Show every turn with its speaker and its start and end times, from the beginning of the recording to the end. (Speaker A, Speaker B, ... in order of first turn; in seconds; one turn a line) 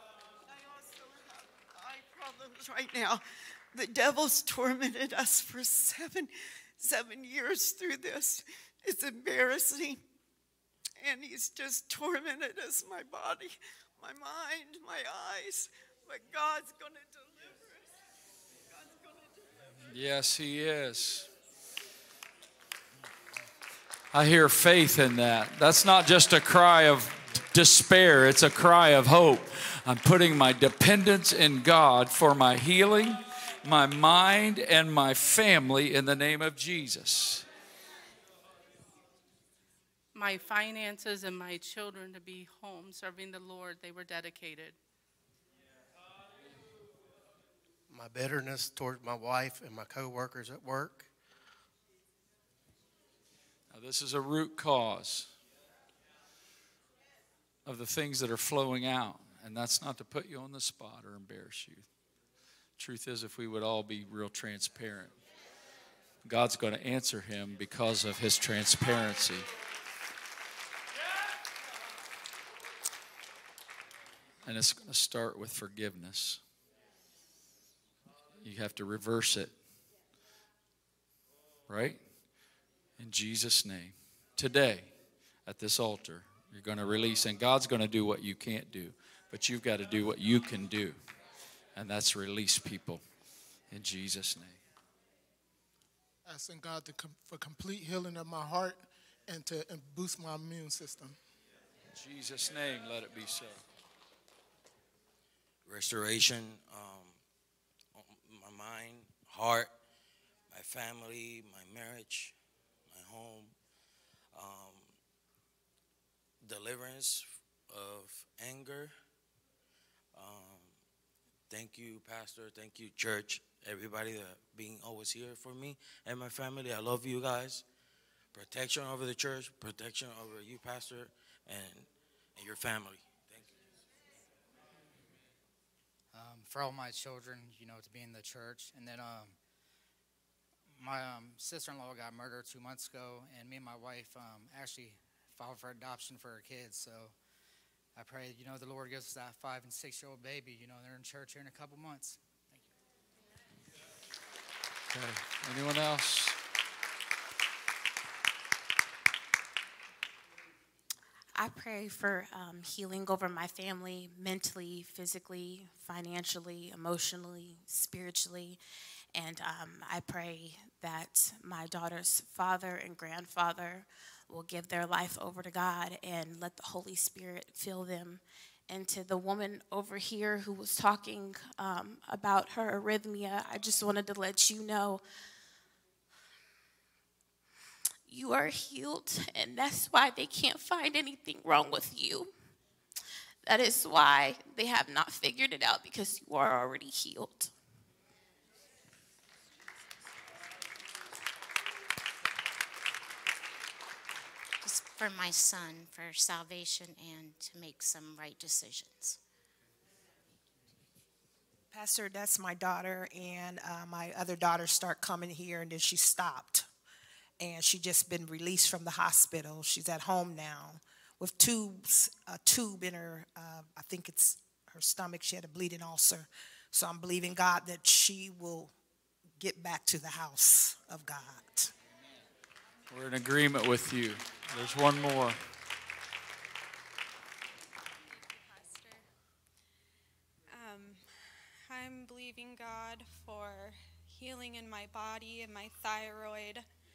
Speaker A: 0.4-10.0
Speaker A: 11.0-18.0
Speaker A: 18.7-19.7
Speaker B: 19.9-21.3
Speaker B: 24.1-37.5
Speaker C: 40.1-44.8
Speaker D: 47.9-51.1
Speaker B: 53.7-55.3
Speaker B: 57.6-61.9
Speaker B: 62.8-65.1
Speaker B: 66.2-69.5
Speaker B: 74.4-76.4
Speaker B: 78.4-79.5
Speaker B: 81.7-82.0
Speaker B: 83.0-84.9
Speaker B: 85.5-91.0
Speaker B: 91.8-93.0
Speaker B: 93.7-94.6
Speaker E: 96.2-101.2
Speaker B: 101.9-103.6
Speaker F: 105.6-107.2
Speaker F: 108.0-109.7
Speaker F: 110.5-112.3
Speaker F: 112.9-113.5
Speaker F: 114.3-114.9
Speaker F: 116.4-118.9
Speaker F: 120.1-120.7
Speaker F: 121.5-127.6
Speaker F: 128.3-133.6
Speaker G: 136.1-139.4
Speaker G: 140.8-147.1
Speaker G: 147.9-152.6
Speaker B: 154.9-156.4
Speaker H: 161.3-168.6
Speaker H: 169.1-185.0
Speaker H: 188.1-192.3
Speaker H: 193.4-197.5
Speaker I: 204.6-209.2
Speaker J: 211.7-216.7
Speaker J: 217.4-228.7
Speaker J: 229.4-231.7
Speaker B: 232.9-235.4
Speaker K: 240.5-241.1
Speaker K: 241.7-246.7